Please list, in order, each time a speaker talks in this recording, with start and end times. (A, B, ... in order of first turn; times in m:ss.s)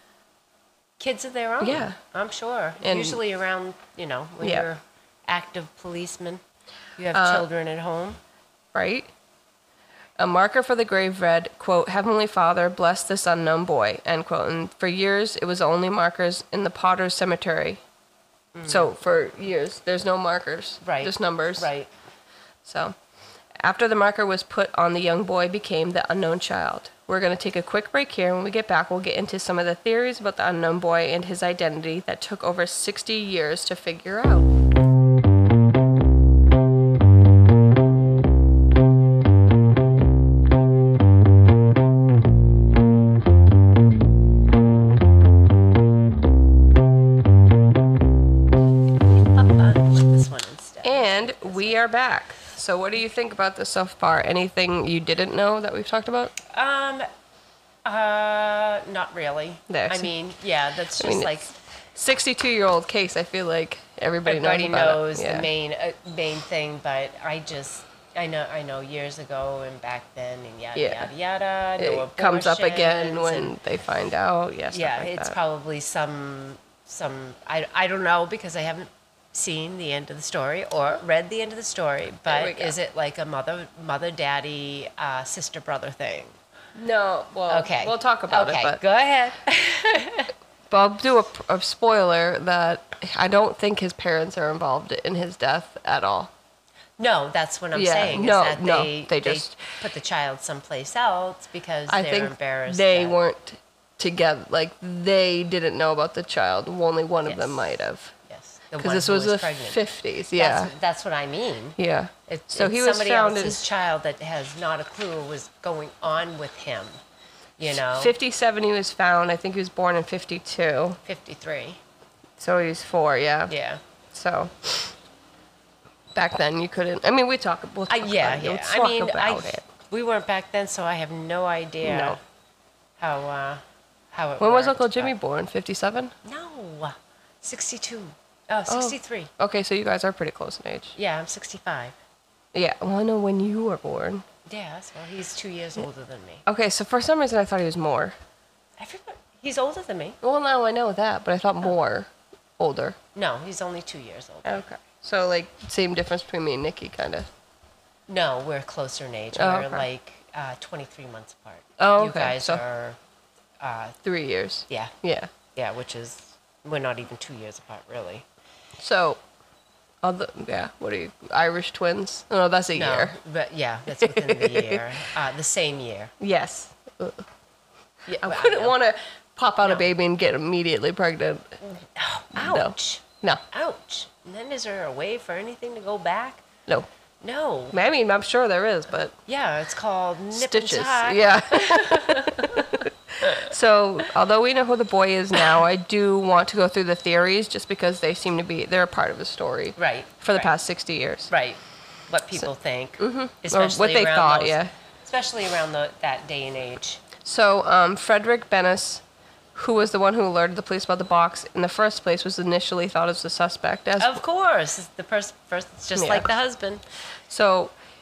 0:01.0-0:06.4 A
0:01.6-0:02.0 B
0:02.8-0:03.2 B
0:04.4-0:04.7 B
0:07.0-0:08.2 A
0:07.1-0:07.4 B
0:08.7-0:09.1 B
0:10.2-0:17.8 B
0:18.5-0:18.9 A
0:18.6-0:21.7 B
0:20.8-0:21.9 A
0:22.6-0:22.9 B
0:23.6-0:34.5 B
0:49.0-0:51.8 A
0:50.8-0:56.3 B
0:56.5-0:57.1 A
0:57.8-1:01.5 A
0:59.7-1:00.1 B
1:01.0-1:01.4 B
1:01.9-1:05.5 B
1:04.2-1:13.5 A
1:10.8-1:11.1 B
1:11.8-1:15.4 B
1:14.7-1:26.3 A
1:22.3-1:22.7 B
1:26.7-1:28.8 B
1:27.5-1:30.3 A
1:30.7-1:36.3 B
1:37.0-1:43.2 A
1:37.7-1:39.7 B
1:41.9-1:48.1 B
1:47.2-1:47.6 A
1:48.3-1:49.8 A
1:48.8-1:50.7 B
1:50.3-1:57.0 A
1:51.8-1:53.6 B
1:57.6-1:58.1 A
1:57.8-2:01.0 B
2:01.0-2:01.8 A
2:02.4-2:03.5 B
2:03.5-2:03.8 A
2:04.1-2:04.9 B
2:06.1-2:09.6 B
2:07.9-2:12.2 A
2:11.8-2:12.2 B
2:13.0-2:15.1 A
2:14.4-2:16.1 B
2:16.2-2:19.3 A
2:18.7-2:21.0 B
2:21.0-2:22.0 A
2:22.5-2:24.2 B
2:24.4-2:26.4 A
2:26.4-2:28.2 B
2:28.8-2:30.2 A
2:30.2-2:33.0 B
2:33.1-2:34.6 A
2:34.4-2:37.3 B
2:38.1-2:43.0 A
2:39.3-2:39.8 B
2:41.8-2:42.6 B
2:43.6-2:44.0 A
2:44.0-2:45.3 B
2:44.7-2:44.9 A
2:45.5-2:48.2 A
2:48.8-2:49.2 B
2:50.0-2:53.2 B
2:52.7-2:56.1 A
2:54.0-2:54.8 B
2:56.2-2:57.2 B
2:58.1-2:58.8 A
2:58.2-3:01.6 B
2:59.6-2:59.9 A
3:01.6-3:06.4 A
3:02.3-3:03.4 B
3:07.2-3:07.8 A
3:07.7-3:09.2 B
3:09.3-3:13.5 A
3:10.3-3:21.3 B
3:15.4-3:15.6 A
3:19.8-3:20.5 A
3:21.3-3:27.0 A
3:23.0-3:24.7 B
3:27.2-3:29.0 B
3:29.5-3:34.2 B
3:34.0-3:36.8 A
3:36.0-3:36.3 B
3:37.3-3:37.7 B